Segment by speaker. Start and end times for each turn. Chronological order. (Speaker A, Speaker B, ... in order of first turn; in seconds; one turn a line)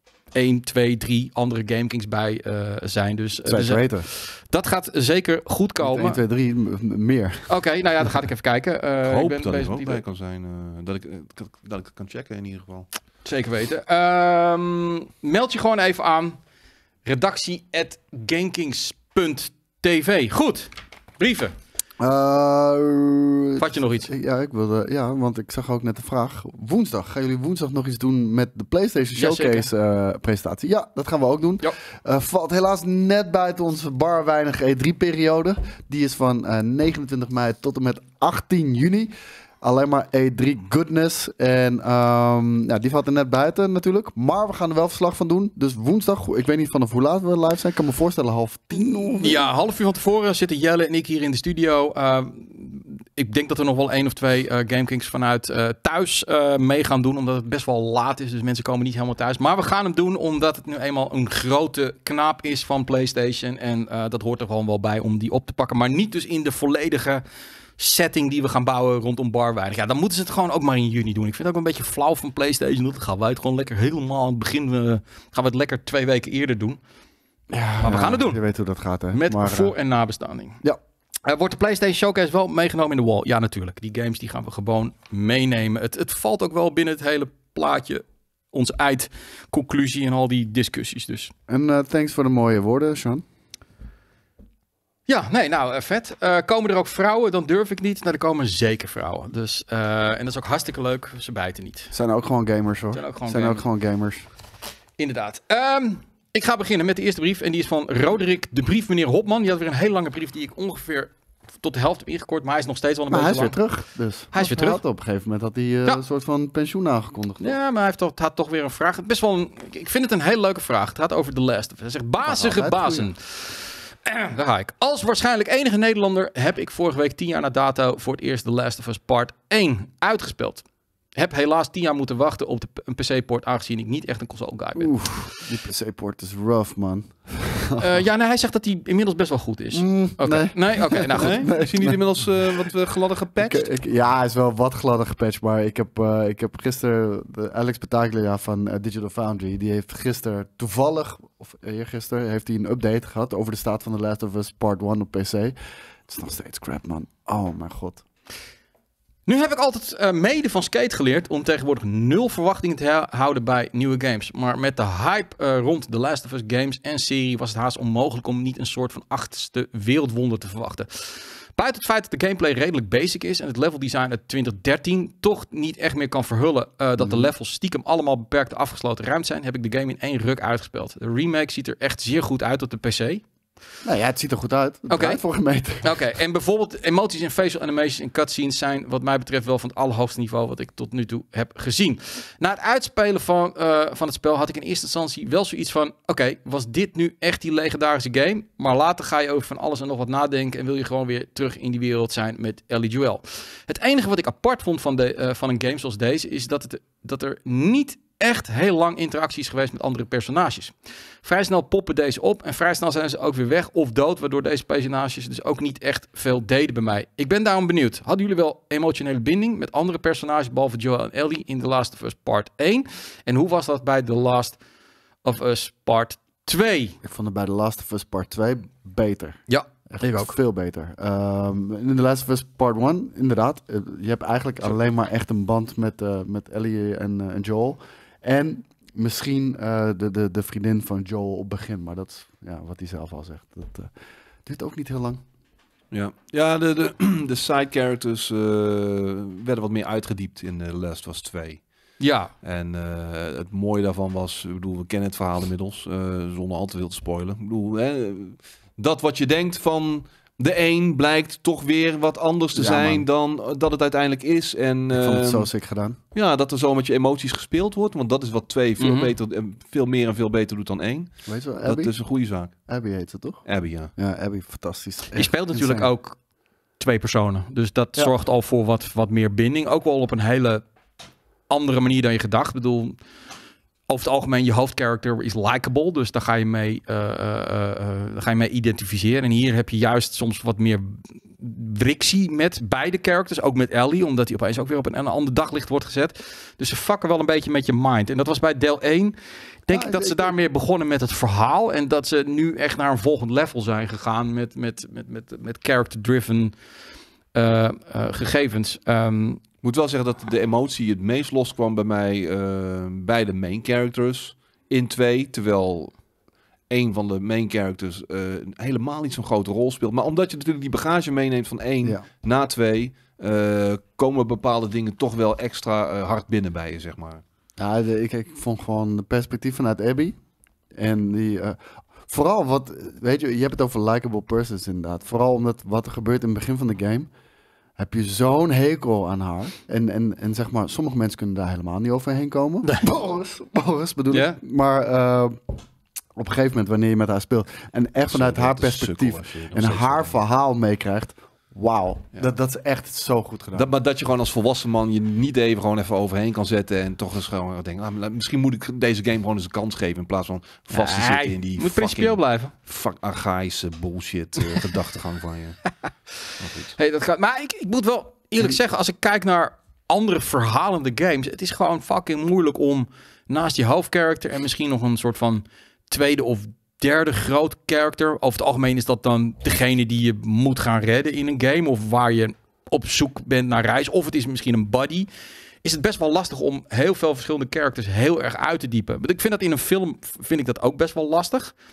Speaker A: 0.3-6.2
Speaker B: 3.4-4.0
Speaker B: 5.8-7.5
Speaker A: 7.5-10.0
Speaker C: 9.0-12.9
Speaker A: 13.2-16.4
Speaker A: 17.0-21.5
Speaker B: 22.0-49.5
Speaker A: 23.6-24.1
Speaker A: 29.1-29.7
Speaker A: 49.2-67.2
Speaker A: 67.8-76.8
Speaker B: 77.5-79.7
Speaker A: 77.8-78.4
Speaker A: 79.1-80.6
Speaker A: 81.2-91.3
Speaker B: 91.5-93.2
Speaker A: 95.1-101.9
Speaker B: 101.9-104.2
Speaker A: 102.9-103.6
Speaker A: 105.0-113.6
Speaker B: 113.1-117.5
Speaker A: 114.3-114.8
Speaker A: 117.4-130.6
Speaker B: 122.2-123.1
Speaker A: 131.1-135.4
Speaker B: 134.8-138.0
Speaker A: 137.8-141.4
Speaker B: 139.7-142.7
Speaker C: 141.1-143.7
Speaker B: 143.4-155.5
Speaker B: 156.1-158.0
Speaker A: 159.2-183.2
Speaker B: 177.0-177.3
Speaker B: 183.8-186.0
Speaker A: 184.9-185.2
Speaker A: 185.8-224.6
Speaker A: 225.2-226.9
Speaker B: 227.0-243.9
Speaker A: 229.5-230.3
Speaker B: 244.4-245.2
Speaker C: 245.9-251.7
Speaker A: 252.0-252.3
Speaker C: 252.4-265.5
Speaker B: 262.5-263.0
Speaker B: 264.9-266.0
Speaker C: 266.1-272.7
Speaker A: 268.8-269.1
Speaker B: 271.3-275.9
Speaker C: 273.4-273.9
Speaker A: 275.1-276.2
Speaker A: 276.8-280.6
Speaker A: 281.5-283.0
Speaker A: 283.9-306.5
Speaker B: 299.7-300.3
Speaker A: 307.3-309.4
Speaker C: 309.6-315.9
Speaker C: 316.7-327.2
Speaker B: 327.6-330.2
Speaker B: 330.7-337.1
Speaker B: 337.8-345.4
Speaker A: 344.1-344.4
Speaker B: 346.1-353.7
Speaker C: 348.1-350.2
Speaker C: 353.5-365.8
Speaker A: 360.7-362.5
Speaker C: 366.4-366.7
Speaker A: 366.7-385.1
Speaker A: 385.6-391.5